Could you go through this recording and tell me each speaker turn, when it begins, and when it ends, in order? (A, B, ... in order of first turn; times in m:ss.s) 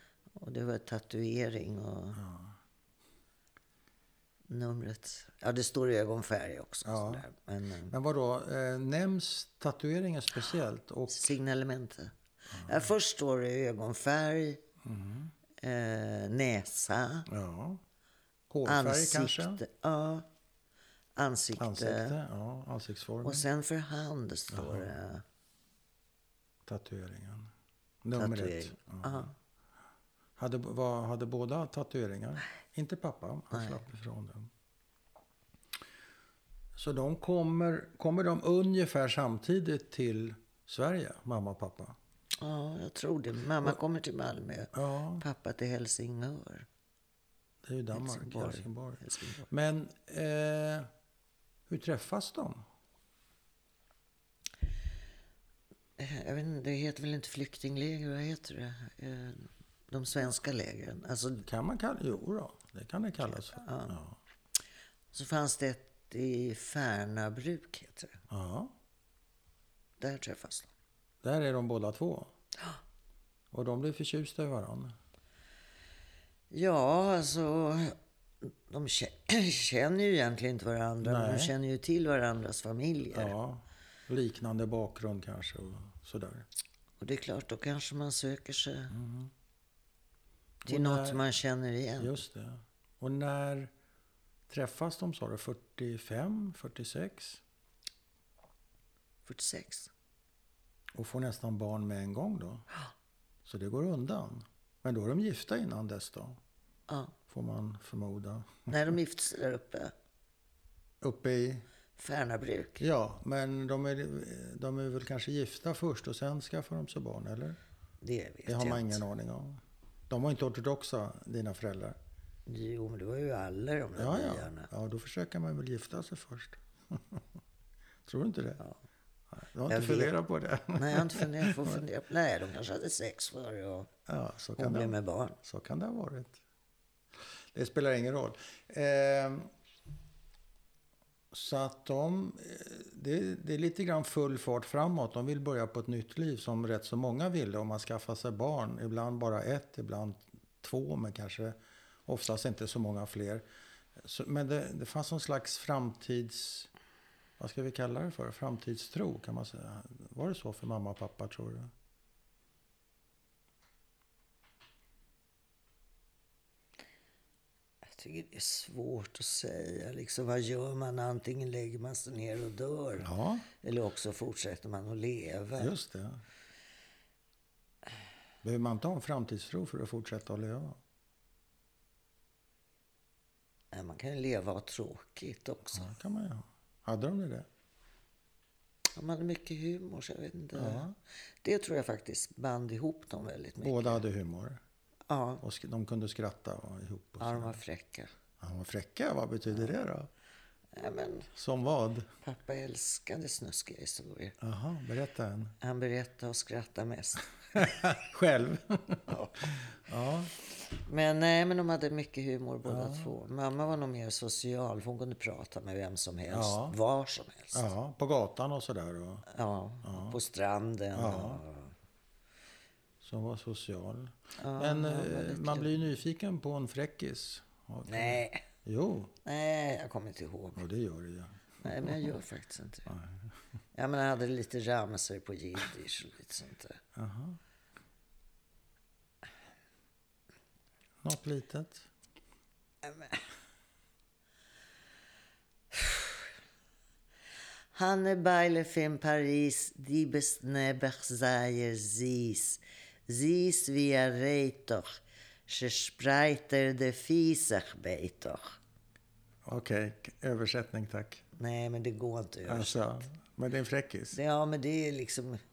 0:00.3-0:02.2 A
0:02.2-0:02.6 B
0:04.5-0:07.9 A
0:06.8-0:07.2 B
0:07.9-0:11.4 B
0:11.1-0:14.6 A
0:12.5-0:12.9 B
0:14.8-0:15.3 B
0:15.6-0:17.3 A
0:17.3-0:17.8 B
0:18.5-0:19.6 B
0:18.6-0:20.3 A
0:21.2-0:22.2 A
0:21.6-0:23.4 B
0:23.2-0:25.2 A
0:24.5-0:24.9 B
0:26.6-0:27.5 B
0:28.0-0:29.3 B
0:28.2-0:29.3 A
0:30.4-0:34.5 B
0:33.5-0:33.8 A
0:36.8-0:41.9 B
0:42.4-0:46.7 A
0:44.7-0:45.2 B
0:47.6-0:50.9 B
0:47.9-0:49.5 A
0:51.7-0:52.6 B
0:56.0-1:01.4 A
1:01.4-1:04.2 B
1:03.6-1:04.0 A
1:05.1-1:08.2 A
1:08.3-1:08.7 B
1:10.0-1:10.7 A
1:11.2-1:12.3 B
1:13.5-1:14.9 B
1:16.5-1:23.3 A
1:21.0-1:21.5 B
1:23.1-1:26.5 B
1:27.0-1:29.0 A
1:28.9-1:29.3 B
1:30.6-1:32.1 A
1:30.6-1:31.2 B
1:32.0-1:33.7 B
1:34.5-1:37.4 B
1:39.2-1:39.9 A
1:40.9-1:42.7 B
1:43.4-1:46.4 B
1:46.9-1:47.1 A
1:47.3-1:48.7 B
1:48.7-1:49.9 A
1:51.0-1:51.6 B
1:52.0-1:52.8 A
1:52.8-1:57.6 B
1:58.0-1:59.0 A
1:58.4-2:02.0 B
2:02.4-2:04.7 A
2:04.0-2:07.2 B
2:08.0-2:08.6 B
2:09.3-2:11.8 B
2:09.7-2:10.2 A
2:10.7-2:13.9 A
2:14.1-2:16.4 B
2:14.6-2:15.4 A
2:17.5-2:19.5 B
2:21.3-2:31.5 B
2:32.1-2:33.4 B
2:34.0-2:36.7 B
2:37.4-2:41.7 B
2:47.8-2:55.7 A
2:53.0-2:53.5 B
2:55.6-2:56.2 B
2:58.4-3:00.8 B
3:03.7-3:05.9 A
3:05.7-3:07.5 B
3:08.9-3:10.9 A
3:10.5-3:10.9 B
3:11.4-3:14.0 A
3:13.6-3:14.6 B
3:15.1-3:15.4 A
3:15.4-3:17.6 B
3:17.2-3:18.1 A
3:18.4-3:20.1 B
3:20.7-3:21.3 A
3:21.3-3:22.1 B
3:22.2-3:24.4 A
3:24.4-3:25.6 B
3:25.6-3:27.8 A
3:27.5-3:30.3 B
3:29.1-3:29.6 A
3:30.3-3:37.7 A
3:32.6-3:33.1 B
3:36.3-3:36.7 B
3:37.5-3:39.3 B
3:39.3-3:41.7 A
3:39.8-3:40.2 B
3:40.9-3:41.4 B
3:43.0-3:49.1 B
3:44.4-3:45.7 A
3:47.9-3:48.4 A
3:49.2-3:50.6 A
3:50.6-3:52.1 B
3:51.6-3:52.9 A
3:52.9-3:53.2 B
3:53.7-3:56.8 A
3:56.9-3:57.4 B
4:01.0-4:01.9 B
4:02.8-4:03.2 A
4:05.7-4:06.3 A
4:07.7-4:18.6 A
4:19.4-4:21.2 B
4:21.3-4:23.0 A
4:22.4-4:24.2 B
4:24.1-4:25.4 A